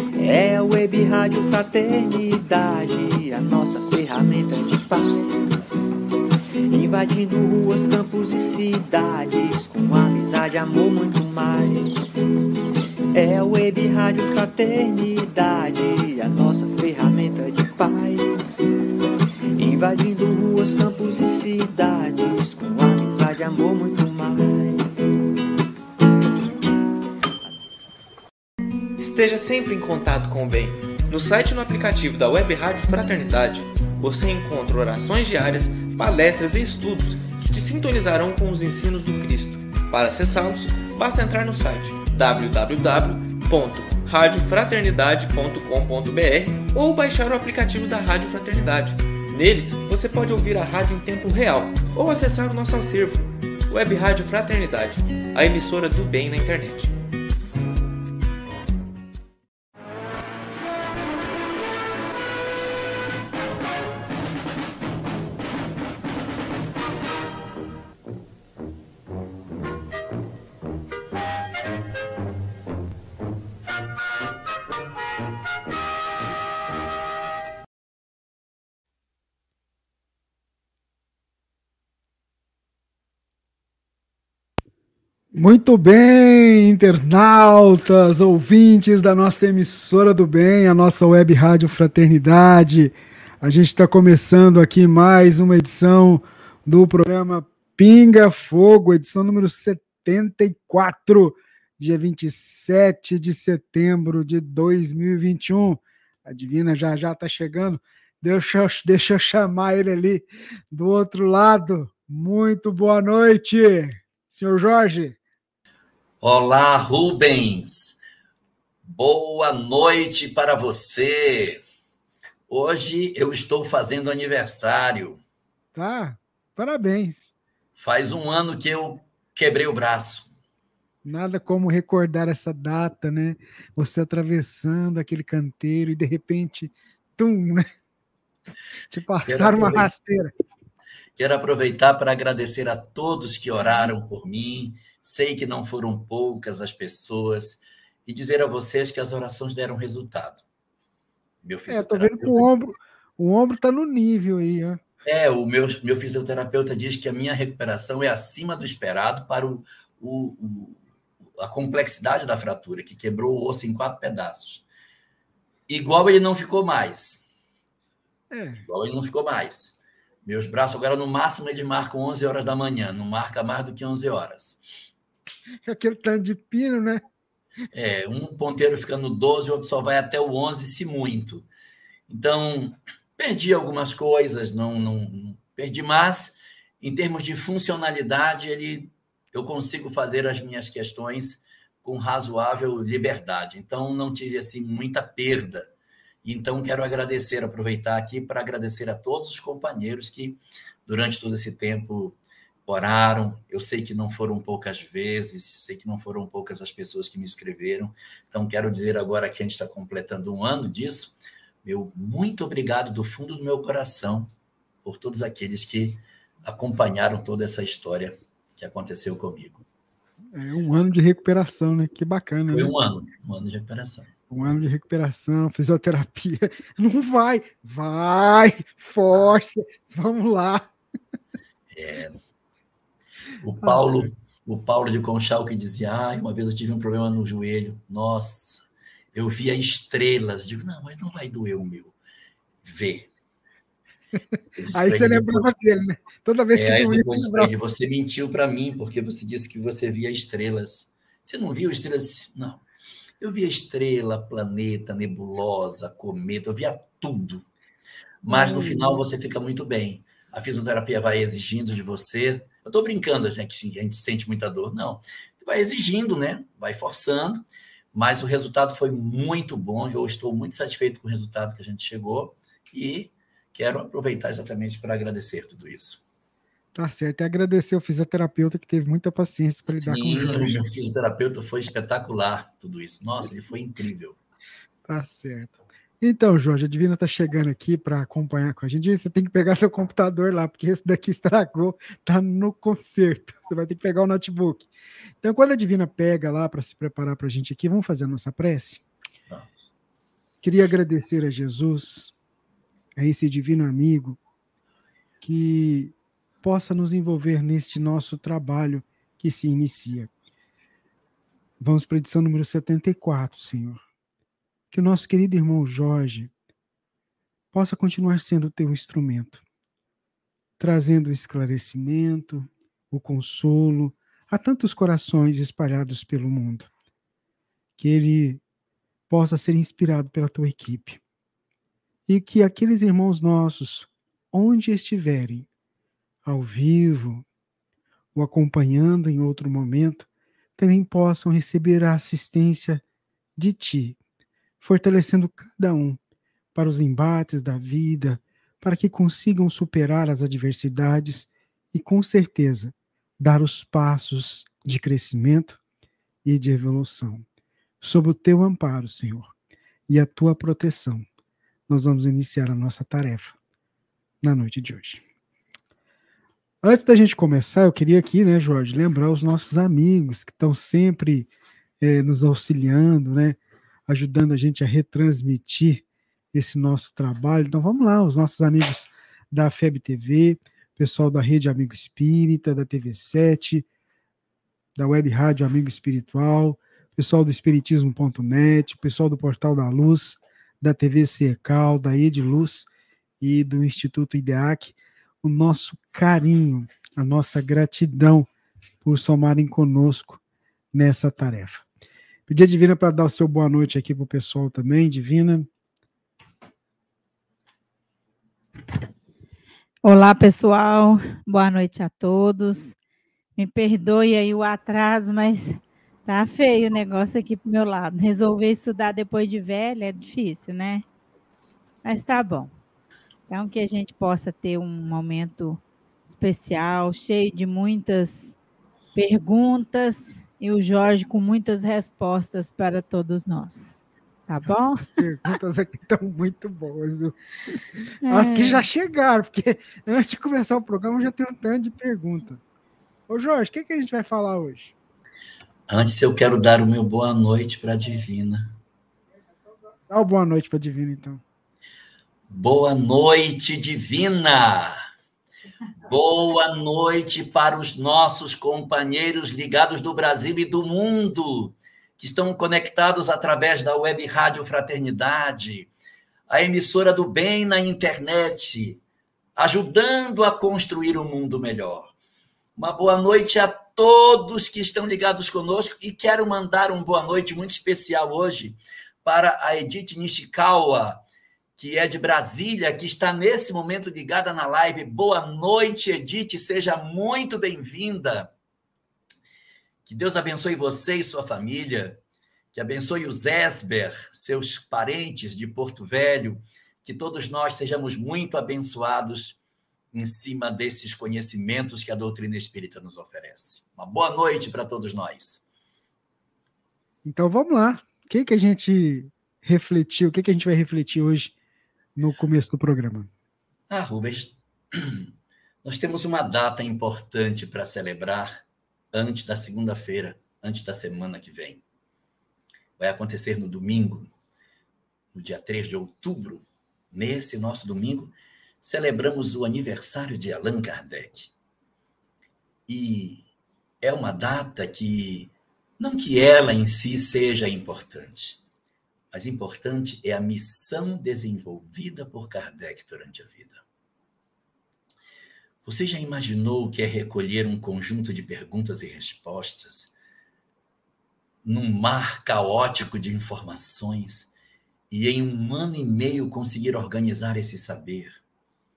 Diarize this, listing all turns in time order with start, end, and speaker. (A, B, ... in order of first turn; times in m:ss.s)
0:00.2-0:05.9 A
0:06.7-0:12.2 A
0:13.1-0:18.7 A
0:19.6-0:24.9 A
0:29.0-0:56.9 B
1:25.3-1:55.2 C
1:56.2-1:58.0 D
1:58.8-2:01.6 D
2:02.5-2:05.2 D
2:05.8-2:07.3 C
2:07.8-2:10.3 D
2:11.0-2:17.7 C
2:18.9-2:20.3 C
2:19.2-2:19.9 D
2:21.2-2:30.4 D
2:31.4-2:32.5 D
2:31.7-2:34.8 C
2:35.0-2:40.8 D
2:41.4-2:44.6 D
2:45.7-2:47.2 D
2:48.3-2:48.6 C
2:48.6-2:54.6 D
2:55.6-2:57.0 C
2:57.7-3:01.5 D
3:02.1-3:15.7 D
3:16.2-3:34.3 D
3:34.8-3:39.6 D
3:40.3-3:42.7 C
3:42.5-3:44.1 D
3:44.3-3:50.7 C
3:51.7-3:52.2 D
3:53.4-4:02.0 D
3:53.6-3:54.1 C
4:02.6-4:03.1 D
4:04.6-4:05.5 D
4:04.7-4:07.5 C
4:06.6-4:12.6 D
4:13.2-4:17.5 D
4:18.2-4:27.4 D
4:18.3-4:19.0 C
4:27.9-4:36.0 D
4:36.8-4:40.6 C
4:39.7-4:44.2 D
4:44.9-4:54.7 C
4:55.2-4:58.8 C
5:00.4-5:02.1 C
5:03.0-5:04.2 C
5:05.2-5:10.1 C
5:11.6-5:13.8 C
5:14.7-5:16.3 C
5:17.5-5:19.4 C
5:20.6-5:26.7 C
5:27.8-5:28.4 C
5:29.1-5:31.0 C
5:32.1-5:35.5 C
5:36.2-5:37.2 C
5:38.2-5:42.8 C
5:43.4-5:44.0 C
5:44.6-5:46.0 C
5:46.6-5:55.6 C
5:56.2-5:57.2 C
5:57.8-5:59.3 C
5:59.9-6:01.1 C
6:01.7-6:03.4 C
6:04.2-6:05.0 C
6:06.6-6:11.3 C
6:11.8-6:23.7 C
6:24.8-6:32.7 C
6:33.2-6:38.3 C
6:38.8-6:40.2 C
6:40.7-6:41.6 C
6:42.3-6:45.5 C
6:49.8-6:52.8 E
6:53.4-7:00.8 E
7:01.8-7:02.5 E
7:03.3-7:08.4 E
7:09.0-7:15.0 E
7:14.5-7:17.1 C
7:18.0-7:18.6 E
7:18.1-7:22.4 C
7:23.1-7:24.8 C
7:25.7-7:28.5 D
7:29.9-7:31.2 C
7:32.3-7:34.8 D
7:35.8-7:45.7 D
7:46.3-7:48.8 D
7:49.4-7:51.9 D
7:52.6-8:01.0 D
8:01.6-8:08.3 D
8:09.9-8:12.0 D
8:12.5-8:19.4 D
8:19.9-8:25.4 D
8:27.0-8:31.4 C
8:32.0-8:33.1 C
8:33.7-8:35.1 D
8:35.6-8:41.6 D
8:42.8-8:44.1 D
8:45.1-8:51.3 D
8:52.7-8:53.2 D
8:53.8-8:58.4 D
8:59.1-9:03.6 D
9:05.6-9:09.9 D
9:11.4-9:14.3 D
9:14.9-9:18.2 D